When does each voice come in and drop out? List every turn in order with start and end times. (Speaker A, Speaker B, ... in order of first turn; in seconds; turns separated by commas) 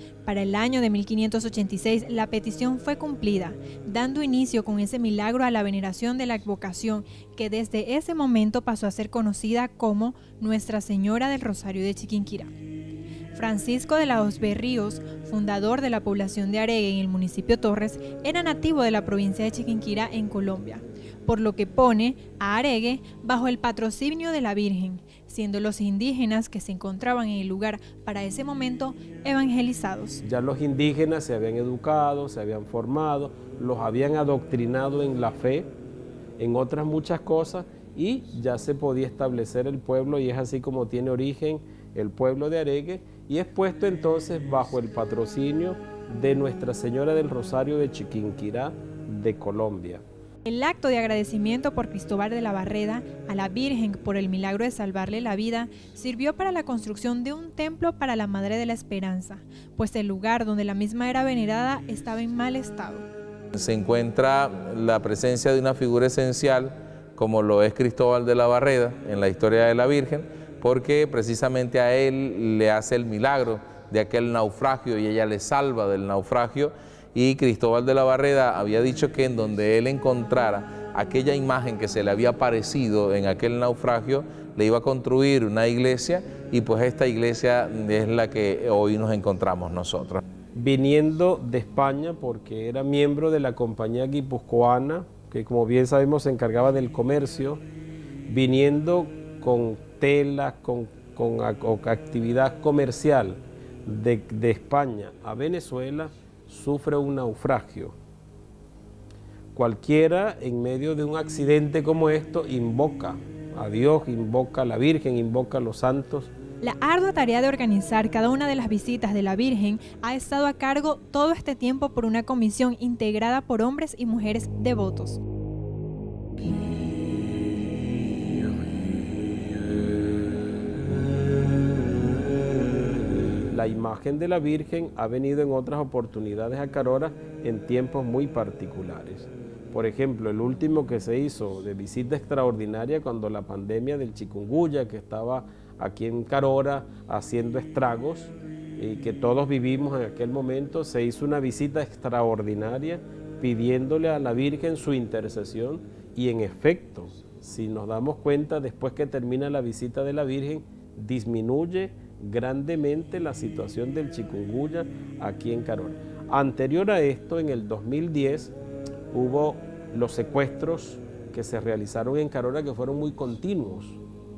Speaker A: 0.2-12.5, Speaker A: 13.3-30.2, Speaker B: 30.2-35.7, Speaker B: 36.4-50.0, Speaker A: 50.4-63.0, Speaker C: 63.5-90.2, Speaker B: 90.5-97.6, Speaker B: 98.3-108.0, Speaker B: 109.5-116.3, Speaker A: 116.6-125.2, Speaker B: 133.5-168.5, Speaker B: 169.1-174.0